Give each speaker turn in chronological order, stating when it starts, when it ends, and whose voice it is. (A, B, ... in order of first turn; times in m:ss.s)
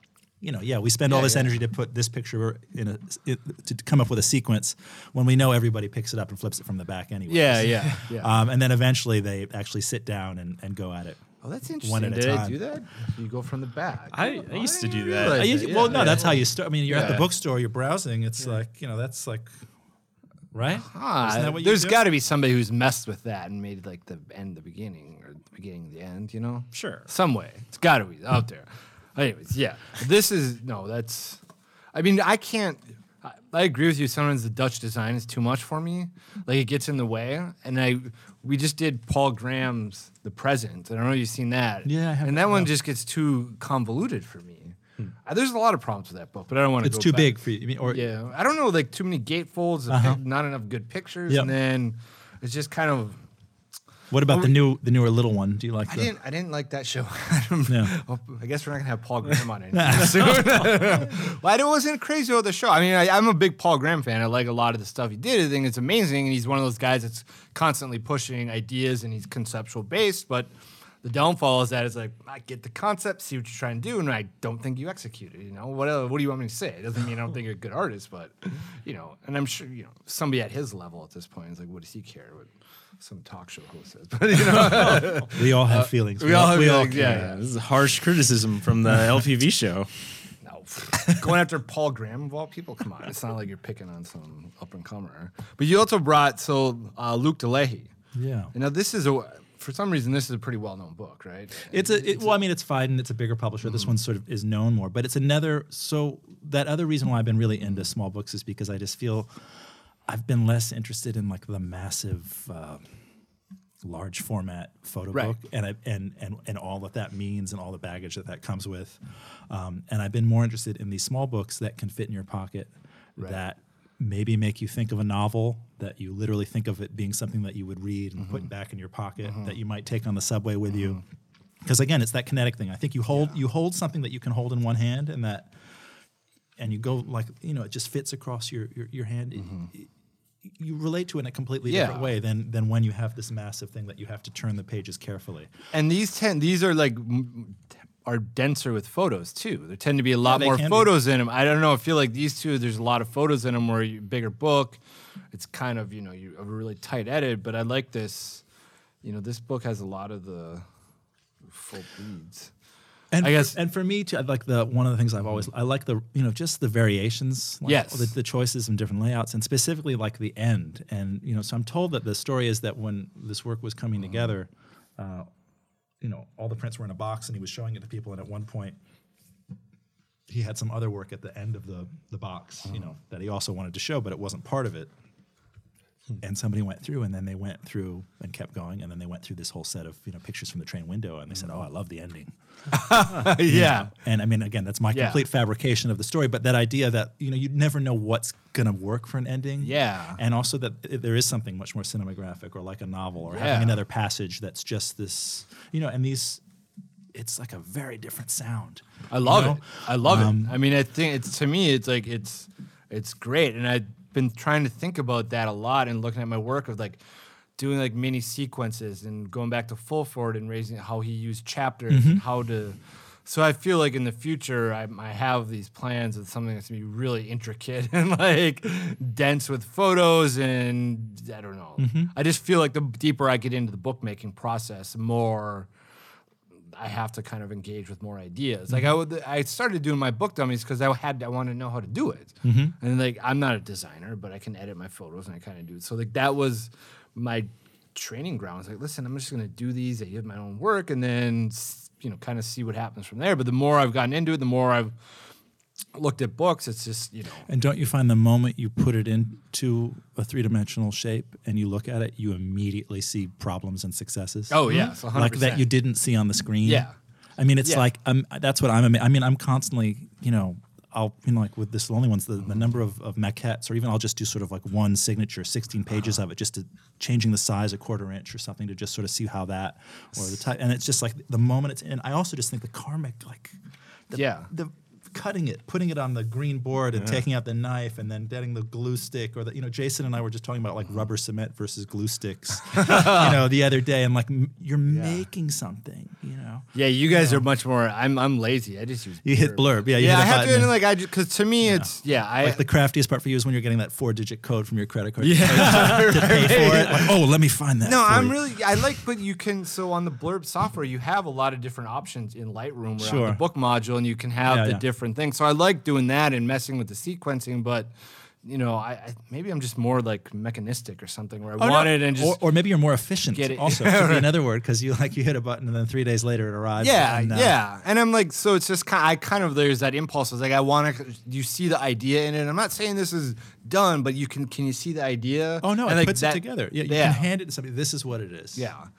0:00.4-0:11.2 A
0:01.1-0:01.6 B
0:07.3-0:08.3 B
0:11.4-0:17.3 B
0:11.8-0:12.6 A
0:14.1-0:16.3 C
0:15.2-0:19.5 A
0:20.5-0:22.0 A
0:20.9-0:31.4 B
0:26.7-0:27.1 C
0:31.9-0:53.2 B
0:41.8-0:42.7 A
0:46.8-0:48.0 A
0:49.9-0:50.2 A
0:54.1-0:56.1 A
0:55.9-1:10.5 B
0:57.7-0:58.0 A
0:59.7-1:01.1 A
1:11.0-1:27.4 B
1:24.6-1:27.4 A
1:27.0-1:29.9 C
1:30.4-1:37.9 B
1:38.2-1:38.5 A
1:38.5-1:42.3 B
1:41.7-1:49.3 A
1:43.7-1:43.9 B
1:50.1-1:52.9 A
1:53.8-2:11.0 A
2:08.2-2:08.5 B
2:09.2-2:09.5 B
2:11.6-2:15.5 A
2:16.6-2:19.9 A
2:19.4-2:19.7 B
2:20.4-2:25.5 A
2:21.7-2:22.1 B
2:25.7-2:34.8 B
2:30.2-2:30.9 A
2:35.3-2:38.4 B
2:39.0-2:40.7 B
2:41.5-2:42.5 B
2:43.1-2:55.3 A
2:43.2-2:43.6 B
2:47.6-2:48.1 B
2:56.0-2:58.8 A
3:00.3-3:04.9 A
3:06.2-3:12.3 A
3:12.7-3:13.9 B
3:13.0-3:26.4 A
3:14.9-3:15.2 B
3:19.6-3:20.2 B
3:23.3-3:23.8 B
3:27.1-3:30.6 A
3:29.1-3:37.0 B
3:37.6-3:55.7 B
3:41.9-3:42.2 A
3:51.8-3:52.1 A
3:56.7-4:15.0 B
4:02.4-4:02.8 A
4:15.9-4:17.5 B
4:17.5-4:43.6 A
4:24.5-4:25.7 B
4:26.6-4:27.0 B
4:44.1-4:57.4 A
4:44.1-4:44.5 B
4:52.7-4:53.4 B
4:54.9-4:55.2 B
4:56.7-5:02.6 B
4:59.2-5:00.8 A
5:01.6-5:08.5 A
5:05.2-5:07.2 B
5:05.4-5:06.5 C
5:07.8-5:17.9 B
5:13.0-5:13.4 A
5:14.5-5:14.8 A
5:18.4-5:22.4 B
5:21.6-5:27.6 A
5:23.3-5:24.3 B
5:26.8-5:37.3 B
5:35.6-5:38.7 A
5:38.6-5:38.9 B